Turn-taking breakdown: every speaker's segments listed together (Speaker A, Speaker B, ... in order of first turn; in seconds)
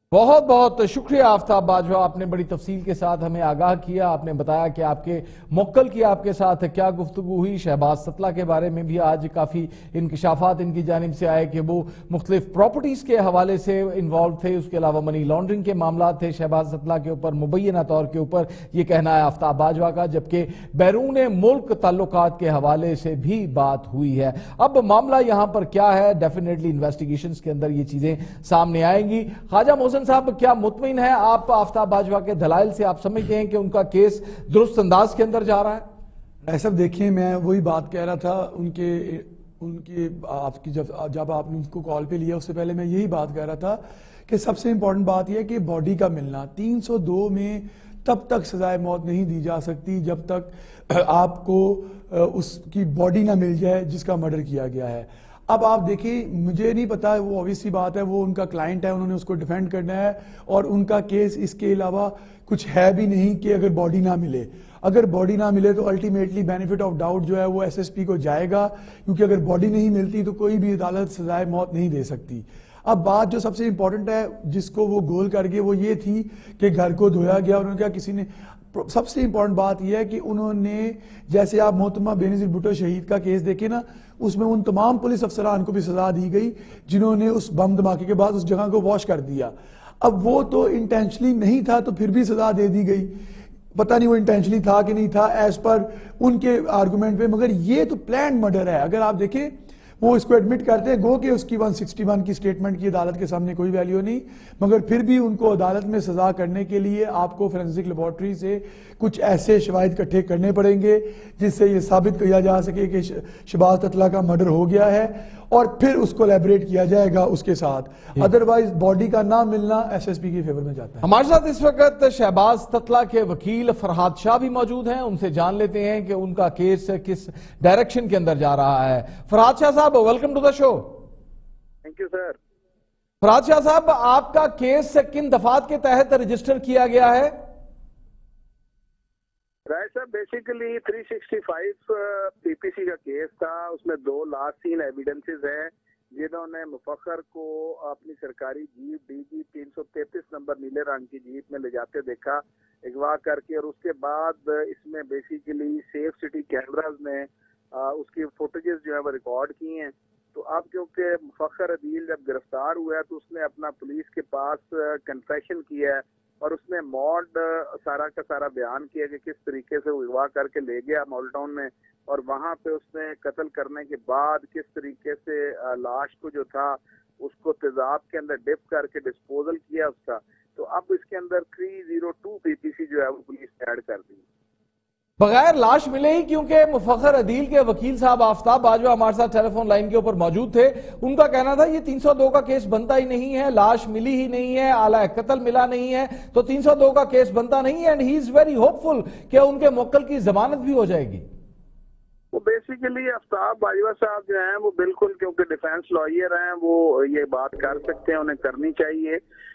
Speaker A: 0.1-35.9, 121.0-130.9, 133.2-137.3, 185.2-201.2
Speaker B: 36.5-93.1, 93.7-121.1
Speaker C: 131.8-132.4, 139.7-184.2, 202.3-209.2